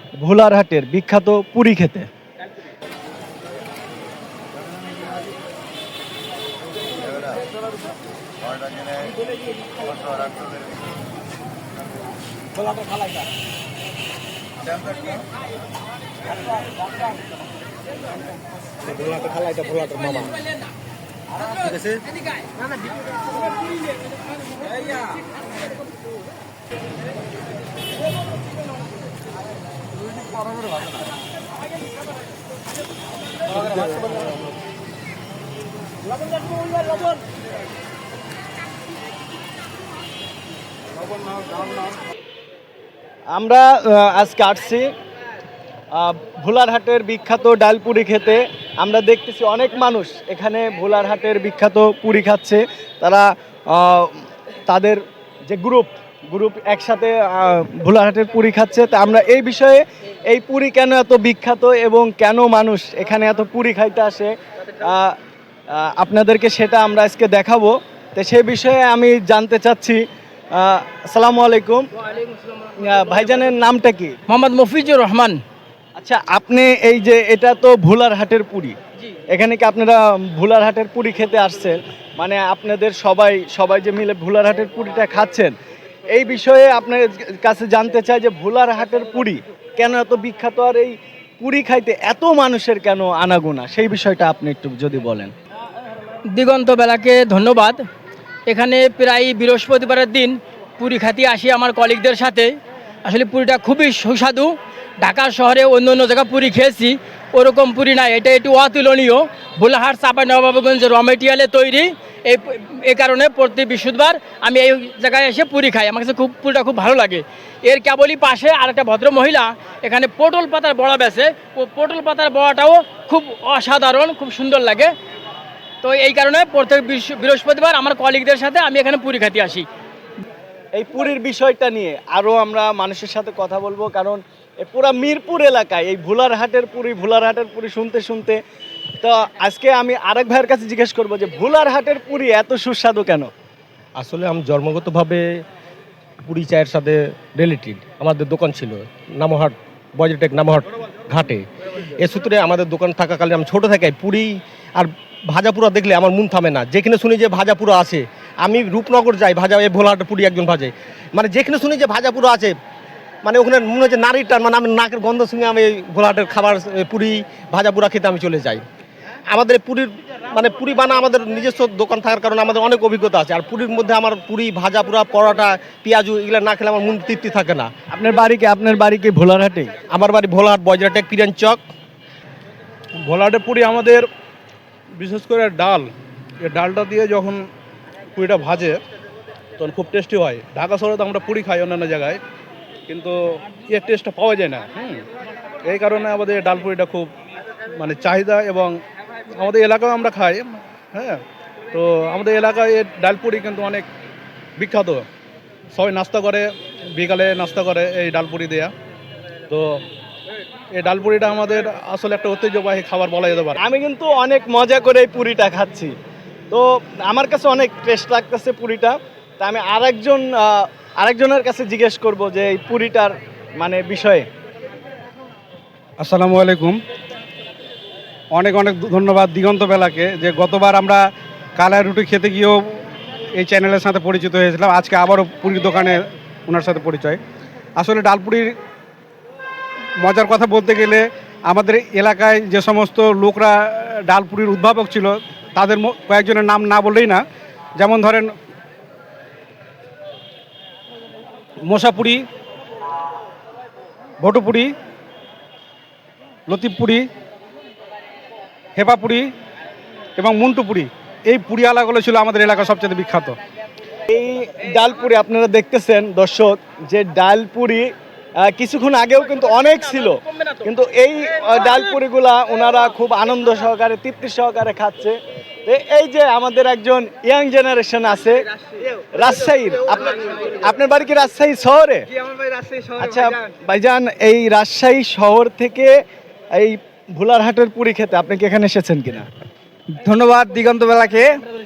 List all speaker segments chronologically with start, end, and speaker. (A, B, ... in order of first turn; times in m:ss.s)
0:00.2-0:02.1 A
0:19.1-0:20.3 B
0:43.3-0:44.9 A
0:45.9-1:05.2 A
1:05.7-1:10.0 A
1:10.5-1:11.9 A
1:12.8-1:14.2 A
1:14.3-1:15.4 C
1:16.0-1:18.8 A
1:19.3-1:25.5 A
1:26.1-1:35.3 A
1:36.3-1:37.8 C
1:38.5-1:42.5 C
1:43.0-2:04.9 C
2:05.8-2:09.6 C
2:10.7-2:18.4 A
2:19.0-2:23.3 A
2:24.0-2:25.2 B
2:26.2-2:42.5 B
2:43.2-2:48.6 B
2:49.3-2:57.7 B
2:57.9-2:59.7 A
2:59.9-3:01.6 B
3:03.0-3:04.1 D
3:05.0-3:05.9 D
3:06.4-3:07.4 D
3:08.2-3:08.8 D
3:09.6-3:12.2 D
3:12.9-3:15.0 D
3:15.7-3:17.1 D
3:17.8-3:18.8 D
3:19.4-3:21.2 D
3:21.7-3:23.9 D
3:24.6-3:25.1 D
3:25.7-3:28.7 D
3:29.5-3:29.8 D
3:30.8-3:33.6 D
3:33.6-3:35.9 A
3:36.5-3:44.3 A
3:46.0-3:46.8 E
3:48.3-3:51.0 E
3:51.6-3:52.8 E
3:53.4-3:57.2 E
3:57.8-3:58.5 E
4:00.0-4:07.2 E
4:07.8-4:08.3 E
4:11.6-4:12.2 E
4:14.2-4:14.7 E
4:16.5-4:17.1 E
4:18.8-4:19.3 E
4:20.2-4:23.4 E
4:24.1-4:27.9 A
4:28.4-4:38.4 A
4:39.1-4:42.0 A
4:42.1-4:43.5 F
4:43.0-4:46.0 A
4:46.5-4:49.3 A
4:50.0-4:51.3 F